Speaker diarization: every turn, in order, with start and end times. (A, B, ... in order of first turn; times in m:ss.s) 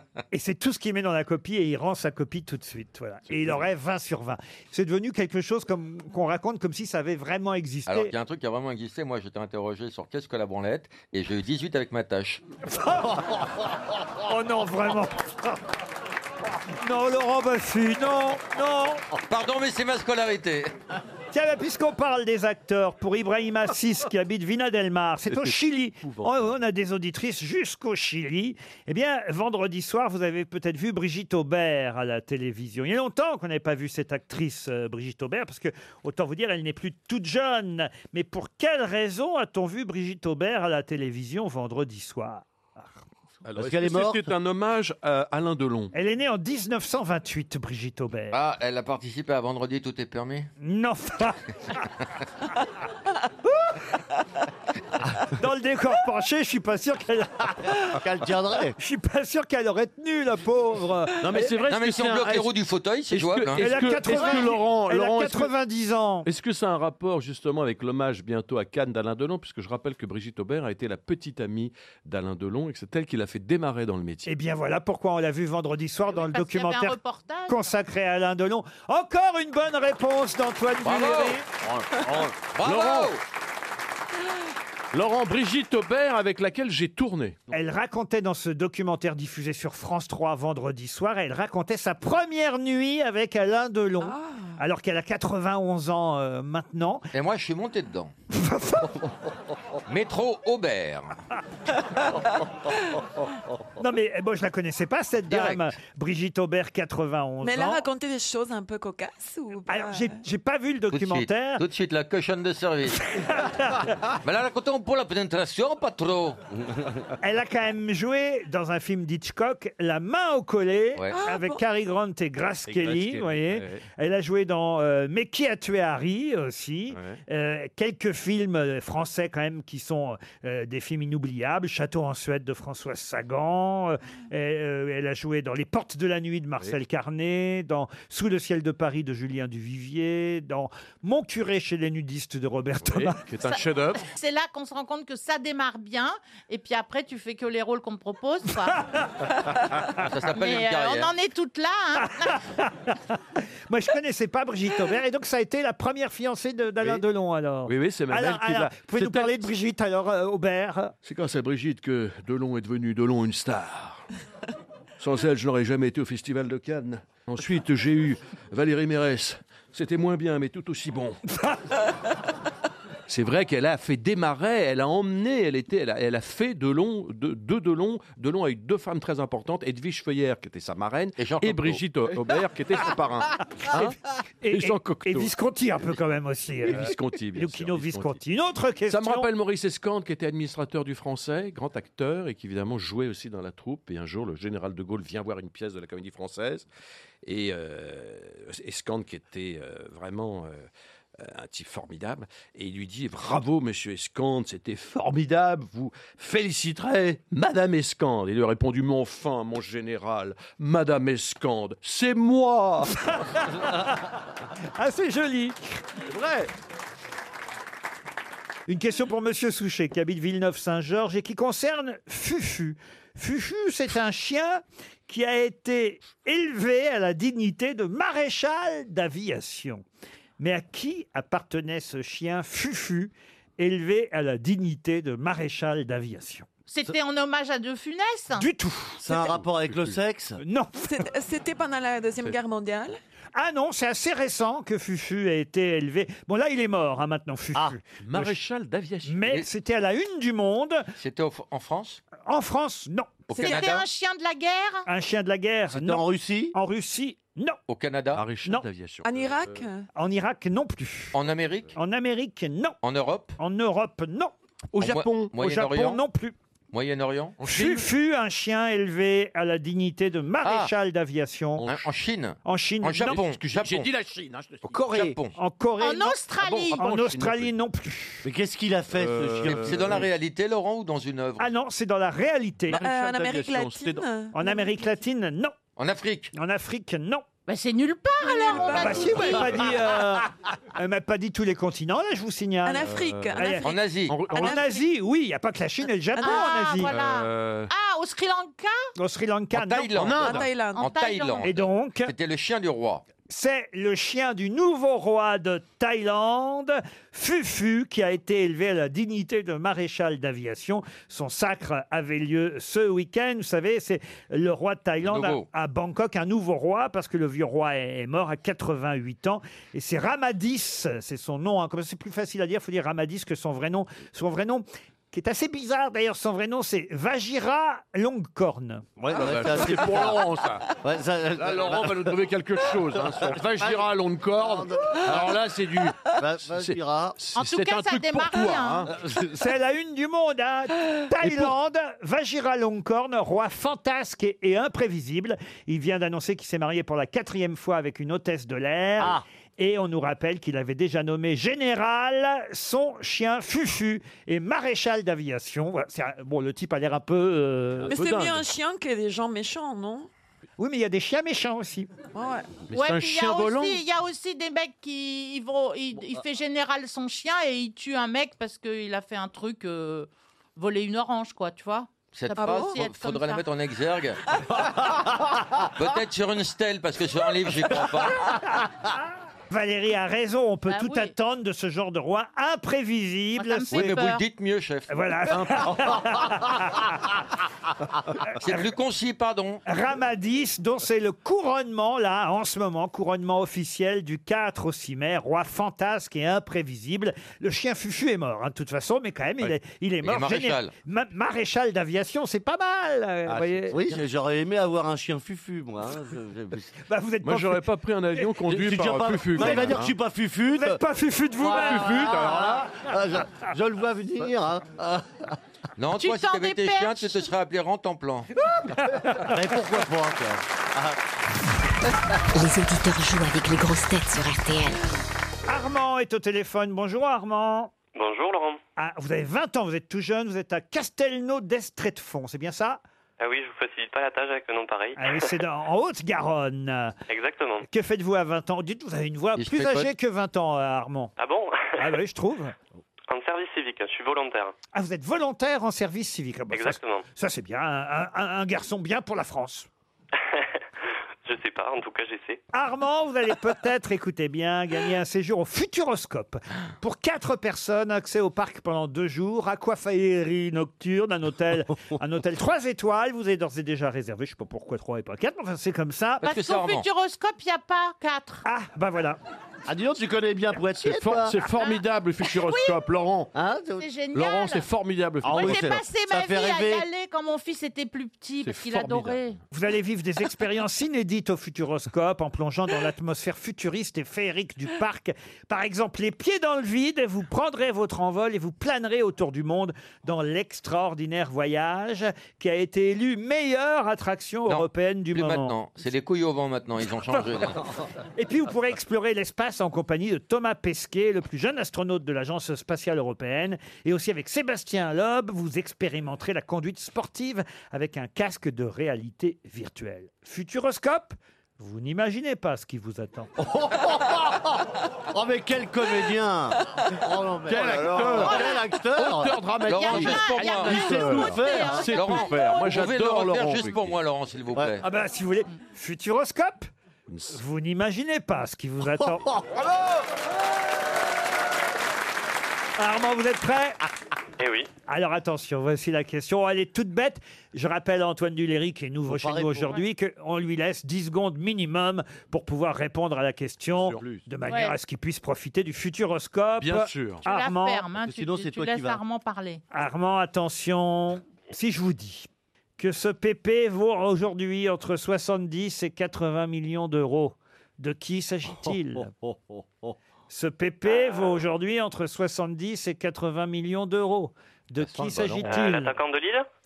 0:00.3-0:08.1 A
0:07.9-0:12.4 B
0:12.7-0:13.4 A
0:14.2-0:15.3 A
0:16.7-0:19.0 A
0:19.3-0:20.8 B
0:21.3-0:42.4 A
0:25.3-0:26.5 C
0:43.4-0:45.9 C
0:43.6-0:44.3 D
0:45.9-0:48.4 A
0:48.3-0:50.5 B
0:50.6-0:51.4 A
0:53.5-0:53.8 A
0:55.3-0:57.9 A
0:57.8-0:58.8 D
0:58.8-1:01.2 A
1:01.2-1:02.5 C
1:01.7-1:04.2 B
1:03.1-1:05.5 C
1:03.6-1:06.3 A
1:06.2-1:14.3 C
1:14.2-1:21.5 A
1:16.1-1:17.7 E
1:20.8-1:21.4 B
1:21.8-1:23.1 C
1:22.6-1:23.2 B
1:24.9-1:27.5 C
1:27.5-1:37.1 A
1:34.0-1:34.5 F
1:37.1-1:38.1 B
1:38.3-1:39.0 A
1:39.9-1:41.2 B
1:43.8-1:47.8 A
1:45.3-1:45.6 B
1:47.4-1:50.1 F
1:49.7-1:51.6 A
1:50.9-1:53.1 B
1:53.1-1:53.9 A
1:54.2-1:56.4 B
1:57.2-2:23.2 A
2:01.1-2:01.6 F
2:02.7-2:03.9 C
2:06.9-2:07.2 C
2:22.9-2:24.0 C
2:24.1-2:28.8 E
2:28.6-2:29.3 A
2:30.0-2:31.1 B
2:30.3-2:32.4 E
2:32.0-2:33.0 A
2:33.7-2:40.9 A
2:37.7-2:39.5 C
2:41.0-2:44.0 C
2:45.0-2:51.2 C
2:53.1-3:04.0 C
3:01.2-3:01.8 B
3:04.4-3:09.3 A
3:04.5-3:05.3 C
3:06.6-3:08.2 C
3:08.9-3:16.7 C
3:17.2-3:33.0 C
3:33.0-3:34.0 A
3:34.8-3:35.9 A
3:36.1-3:36.5 C
3:38.7-3:49.8 A
3:50.4-3:56.5 A
3:56.7-3:58.5 E
3:58.4-3:59.0 A
3:59.0-4:00.4 D
3:59.1-4:00.0 C
4:00.4-4:00.9 A
4:00.8-4:03.0 F
4:03.4-4:08.4 A
4:08.0-4:09.4 C
4:09.0-4:10.9 A
4:11.0-4:12.0 B
4:12.2-4:13.3 A
4:13.3-4:13.9 B
4:13.4-4:13.7 F
4:13.4-4:14.9 E
4:14.9-4:17.6 A
4:15.7-4:16.6 D
4:17.7-4:18.2 B
4:18.1-4:19.6 C
4:19.0-4:19.9 F
4:19.9-4:21.2 A
4:21.1-4:21.7 B
4:21.8-4:22.8 A
4:22.8-4:23.4 B
4:23.4-4:24.3 A
4:24.7-4:25.3 C
4:24.8-4:26.0 B
4:25.4-4:26.4 A
4:26.7-4:27.4 B
4:27.4-4:27.9 C
4:27.4-4:31.7 A
4:30.4-4:30.7 B
4:31.6-4:33.9 B
4:32.4-4:33.2 A
4:33.0-4:35.1 C
4:34.7-4:35.4 B
4:35.4-4:38.3 A
4:35.8-4:36.9 E
4:36.4-4:37.5 C
4:38.2-4:40.1 D
4:38.9-4:40.1 C
4:39.4-4:41.5 B
4:41.4-4:42.8 A
4:42.7-4:44.1 C
4:42.7-4:45.0 F
4:44.3-4:45.6 A
4:45.8-4:46.3 B
4:46.3-4:47.2 A
4:47.5-4:49.7 E
4:48.2-4:49.5 F
4:48.7-4:53.7 A
4:52.6-4:53.8 F
4:52.8-4:53.4 C
4:53.6-4:54.2 B
4:54.1-4:54.5 C
4:54.3-4:54.8 F
4:54.3-4:56.9 A
4:56.2-4:56.6 F
4:56.2-4:58.9 E
4:56.9-4:57.7 C
4:59.0-4:59.9 A
4:59.5-5:03.0 B
5:00.0-5:00.6 C
5:00.2-5:00.9 F
5:00.7-5:01.5 E
5:01.4-5:02.1 A
5:03.3-5:28.9 A
5:15.0-5:15.5 B
5:29.0-5:30.3 D
5:29.1-5:30.7 C
5:30.8-5:32.2 D
5:31.4-5:39.0 C
5:33.0-5:33.9 D
5:34.4-5:35.5 D
5:36.0-5:37.2 D
5:37.4-5:38.9 E
5:38.9-5:39.2 D
5:39.3-5:58.0 A
5:41.2-5:41.6 C
5:57.8-5:58.5 C
5:57.9-6:00.1 F
6:00.6-6:01.9 A
6:02.1-6:02.6 F
6:02.7-6:03.8 C
6:02.7-6:13.4 E
6:12.1-6:14.6 B
6:12.4-6:12.7 F
6:15.8-6:18.3 B
6:19.5-6:24.1 A
6:20.7-6:21.1 E
6:23.4-6:24.2 E
6:23.7-6:25.4 B
6:24.9-6:27.0 A
6:25.3-6:26.2 C
6:28.3-6:28.6 A
6:28.4-6:29.6 B
6:29.7-6:43.9 A
6:40.0-6:40.7 B
6:43.3-6:43.8 C
6:43.7-6:46.7 D
6:46.9-6:47.7 A
6:47.2-6:49.9 C
6:48.5-6:50.8 D
6:49.4-6:49.8 A
6:50.5-6:52.2 A
6:51.4-6:52.6 C
6:51.5-6:55.4 D
6:55.8-6:58.3 B
6:56.0-6:57.3 E
6:59.1-7:01.0 D
7:02.3-7:04.8 G
7:05.5-7:07.7 A
7:07.9-7:08.6 H
7:08.8-7:12.8 A
7:13.2-7:15.3 H
7:15.0-7:17.0 A
7:17.1-7:17.7 H
7:17.7-7:21.1 A
7:19.4-7:19.9 B
7:21.2-7:21.8 H
7:21.8-7:22.6 A
7:23.1-7:24.6 H
7:24.7-7:29.7 A
7:26.5-7:27.0 H
7:30.2-7:30.5 H
7:31.2-7:32.4 H
7:32.5-7:46.2 A
7:46.2-7:48.4 E
7:46.2-7:46.9 B
7:48.4-7:49.2 A
7:49.7-7:51.4 D
7:50.8-7:53.3 C
7:51.6-7:52.8 E
7:53.3-7:53.9 D
7:53.8-7:54.7 E
7:54.1-7:55.8 C
7:55.2-7:56.9 D
7:55.2-7:59.4 E
7:58.4-7:59.2 C
7:59.5-8:15.6 A
8:14.5-8:17.6 B
8:18.2-8:33.3 A
8:33.4-8:41.9 D
8:37.5-8:44.0 C
8:38.0-8:38.7 E
8:39.6-8:41.0 B
8:39.7-8:42.8 E
8:41.9-8:44.8 B
8:44.8-8:46.7 A
8:47.1-8:47.4 C
8:47.3-8:49.3 A
8:49.1-8:49.6 D
8:52.8-8:53.8 A
8:54.4-8:54.7 H
8:54.9-9:07.8 A
8:59.1-8:59.8 D
9:03.7-9:04.2 C
9:04.5-9:04.8 E
9:06.6-9:07.2 C
9:07.2-9:09.6 E
9:08.0-9:09.0 D
9:09.7-9:19.1 A
9:20.3-9:25.9 A
9:24.8-9:25.7 C
9:25.4-9:26.5 H